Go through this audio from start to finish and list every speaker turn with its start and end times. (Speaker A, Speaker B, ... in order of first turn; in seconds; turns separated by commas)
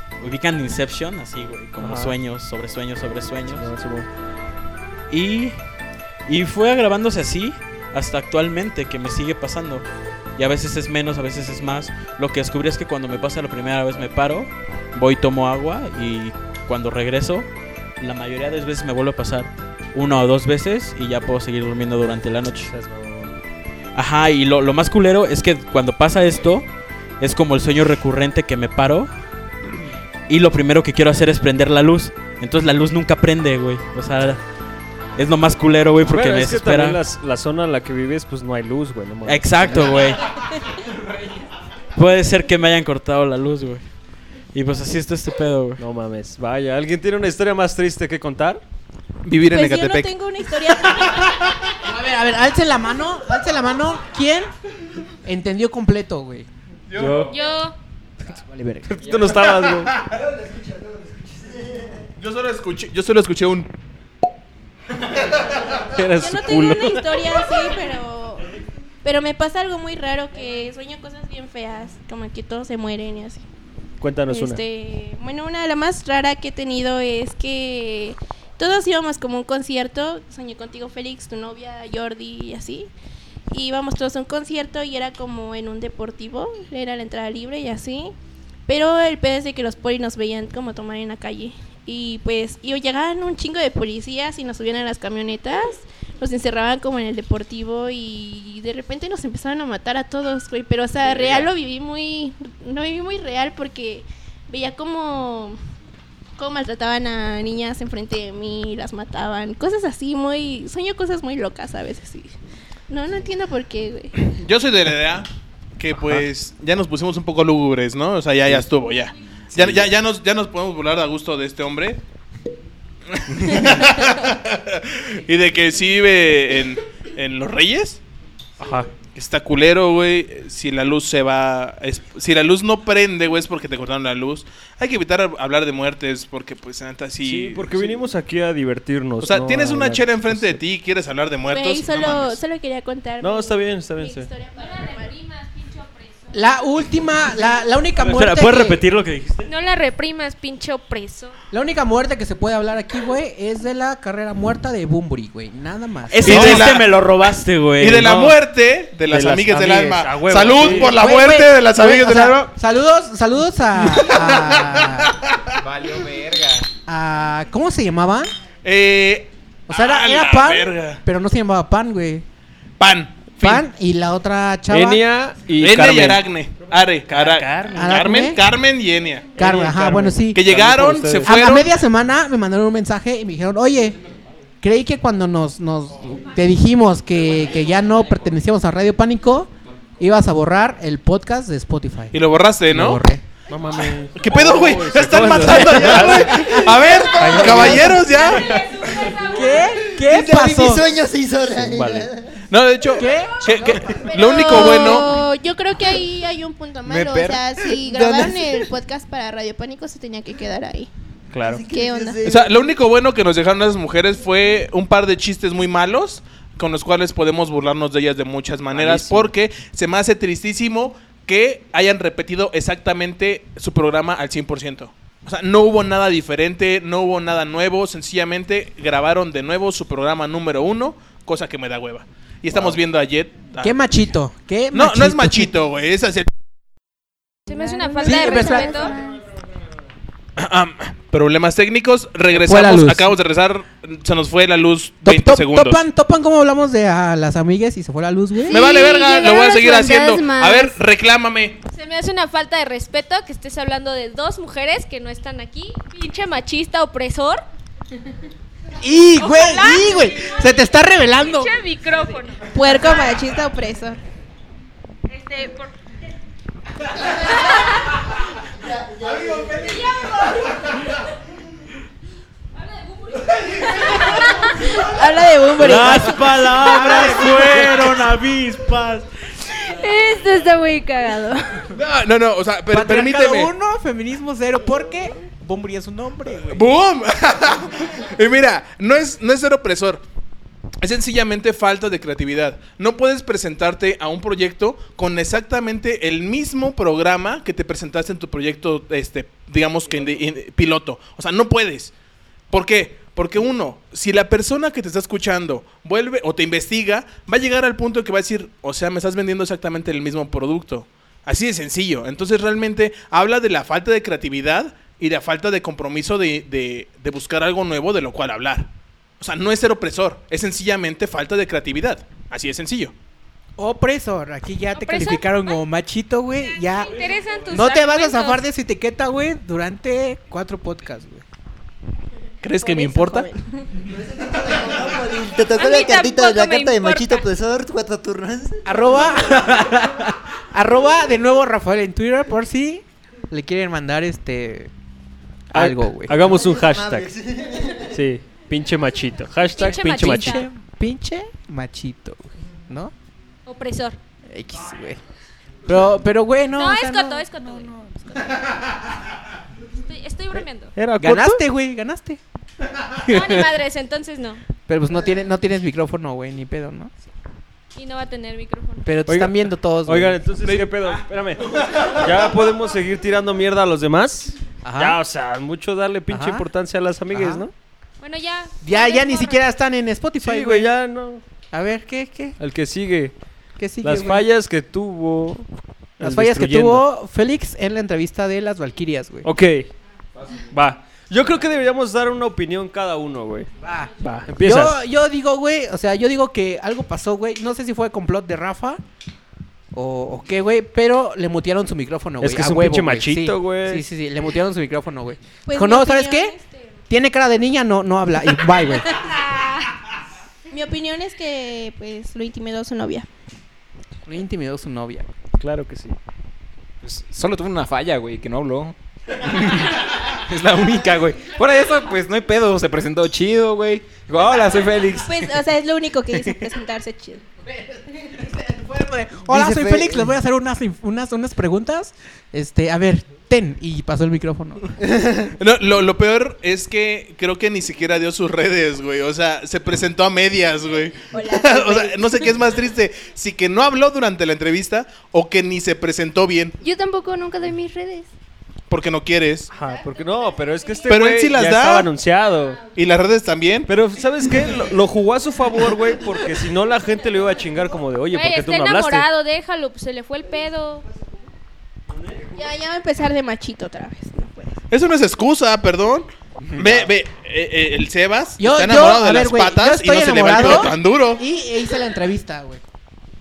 Speaker A: 0.2-3.7, Speaker B: 1.8-2.1, Speaker B: 3.5-4.1, Speaker A: 5.1-5.5, Speaker A: 6.3-9.8, Speaker A: 10.4-17.5, Speaker A: 18.0-22.7, Speaker B: 22.6-23.4, Speaker A: 23.9-26.6, Speaker A: 27.2-29.1, Speaker A: 30.3-34.4, Speaker A: 35.1-37.0, Speaker B: 36.0-40.1, Speaker A: 39.2-40.2, Speaker A: 42.0-43.8, Speaker A: 44.5-45.8, Speaker B: 45.8-48.6, Speaker C: 49.2-50.1, Speaker D: 49.5-51.2, Speaker E: 51.8-54.5, Speaker E: 55.2-56.5, Speaker C: 56.9-57.3, Speaker B: 56.9-57.3, Speaker F: 57.3-57.7, Speaker E: 58.2-59.0, Speaker B: 58.9-59.9, Speaker G: 60.0-62.0, Speaker C: 62.2-63.7, Speaker B: 65.9-67.1, Speaker D: 66.2-68.5, Speaker D: 69.0-73.4, Speaker B: 74.0-74.6, Speaker D: 74.3-82.9, Speaker D: 83.5-88.1, Speaker D: 88.7-105.6, Speaker B: 101.0-101.5, Speaker D: 106.4-112.3, Speaker D: 112.9-114.2, Speaker C: 114.3-115.3, Speaker C: 115.8-122.0, Speaker B: 119.5-119.8, Speaker C: 123.1-128.0, Speaker B: 128.6-129.0, Speaker C: 129.0-138.0, Speaker B: 137.2-140.6, Speaker C: 139.2-142.4, Speaker D: 141.5-145.1, Speaker B: 143.2-144.3, Speaker F: 144.6-146.3, Speaker E: 146.3-148.8, Speaker A: 148.0-149.5, Speaker F: 149.4-151.4, Speaker E: 151.5-156.6, Speaker A: 156.1-158.3, Speaker C: 156.2-156.9, Speaker C: 157.8-162.5, Speaker B: 159.1-161.0, Speaker E: 160.6-165.1, Speaker C: 163.8-165.3, Speaker H: 165.6-166.7, Speaker E: 166.9-168.3, Speaker C: 168.6-171.0, Speaker E: 169.7-172.2, Speaker C: 172.8-173.6, Speaker E: 173.4-175.0, Speaker B: 174.7-176.3, Speaker C: 175.6-179.4, Speaker B: 177.1-177.9, Speaker E: 177.7-178.4, Speaker B: 179.3-181.4, Speaker E: 179.4-180.4, Speaker C: 180.3-181.7, Speaker E: 181.2-184.0, Speaker E: 184.6-193.2, Speaker C: 192.1-193.0, Speaker B: 193.5-196.5, Speaker C: 194.1-199.0, Speaker E: 196.0-196.7, Speaker G: 196.7-198.0, Speaker B: 197.2-198.0, Speaker F: 198.1-199.9, Speaker E: 199.2-200.9, Speaker G: 200.0-202.4, Speaker B: 201.6-202.1, Speaker C: 202.5-205.2, Speaker E: 203.0-204.1, Speaker D: 204.1-210.9, Speaker H: 206.8-207.5, Speaker G: 207.8-208.7, Speaker B: 211.3-211.6, Speaker G: 211.4-212.5, Speaker D: 211.7-212.2, Speaker C: 212.2-233.8, Speaker B: 218.7-219.3, Speaker E: 233.6-235.5, Speaker C: 234.7-236.3, Speaker F: 237.5-238.9, Speaker I: 237.8-238.9, Speaker E: 238.0-238.8, Speaker C: 240.3-245.8, Speaker E: 242.3-243.1, Speaker E: 245.0-248.6, Speaker C: 248.5-251.6, Speaker I: 248.5-250.8, Speaker F: 248.8-249.2, Speaker F: 251.7-257.4, Speaker E: 258.8-261.5, Speaker F: 259.2-260.5, Speaker F: 261.2-262.8, Speaker D: 262.5-264.0, Speaker F: 265.1-265.7, Speaker G: 268.5-269.8, Speaker F: 269.9-270.2, Speaker F: 272.6-274.1, Speaker D: 274.6-276.2, Speaker A: 275.6-279.1, Speaker E: 276.6-278.0, Speaker I: 279.6-281.6, Speaker C: 281.7-283.5, Speaker E: 282.7-286.6, Speaker C: 286.5-290.0, Speaker C: 290.8-301.9, Speaker C: 302.5-322.9, Speaker E: 323.6-327.0, Speaker F: 324.7-325.6, Speaker F: 326.4-328.4, Speaker E: 327.5-331.2, Speaker C: 332.4-333.3, Speaker D: 332.6-333.4, Speaker G: 333.9-338.8, Speaker F: 335.5-337.2, Speaker E: 338.6-344.7, Speaker E: 345.5-346.1, Speaker B: 345.5-347.1, Speaker G: 346.2-348.0, Speaker B: 347.9-350.4, Speaker F: 349.5-350.5, Speaker E: 349.7-352.9, Speaker F: 353.4-354.0, Speaker E: 354.3-355.0, Speaker E: 355.7-358.3, Speaker F: 356.6-357.7, Speaker F: 359.8-360.7, Speaker B: 360.8-361.4, Speaker E: 361.0-362.2, Speaker E: 363.0-363.4, Speaker F: 363.1-364.4, Speaker E: 364.7-366.9, Speaker F: 367.7-368.9, Speaker E: 368.8-370.6, Speaker B: 369.1-377.5, Speaker E: 374.6-375.0, Speaker E: 376.1-376.4, Speaker E: 377.1-377.4, Speaker F: 378.0-379.4, Speaker E: 378.6-380.7, Speaker B: 380.2-381.2, Speaker E: 381.5-382.4, Speaker B: 382.4-383.1, Speaker E: 383.6-384.2, Speaker B: 383.8-385.5, Speaker B: 386.0-386.8, Speaker E: 386.0-389.3, Speaker B: 389.2-389.7, Speaker B: 390.5-393.5, Speaker E: 393.6-398.8, Speaker B: 394.0-394.8, Speaker E: 399.7-406.3, Speaker B: 402.2-403.8, Speaker D: 405.4-406.6, Speaker E: 406.9-408.9, Speaker D: 408.9-409.6, Speaker D: 410.5-413.1, Speaker E: 414.1-415.1, Speaker B: 415.4-416.0, Speaker H: 416.8-425.3, Speaker D: 425.0-427.2, Speaker E: 428.2-434.7, Speaker G: 429.3-430.1, Speaker C: 435.3-446.5, Speaker D: 441.1-442.3, Speaker I: 446.6-448.1, Speaker C: 448.7-449.5, Speaker B: 449.5-452.7, Speaker C: 450.8-451.9, Speaker C: 452.7-453.7, Speaker B: 453.7-459.1, Speaker F: 458.1-460.9, Speaker D: 462.3-464.6, Speaker C: 464.7-471.2, Speaker H: 466.4-466.9, Speaker E: 468.4-472.6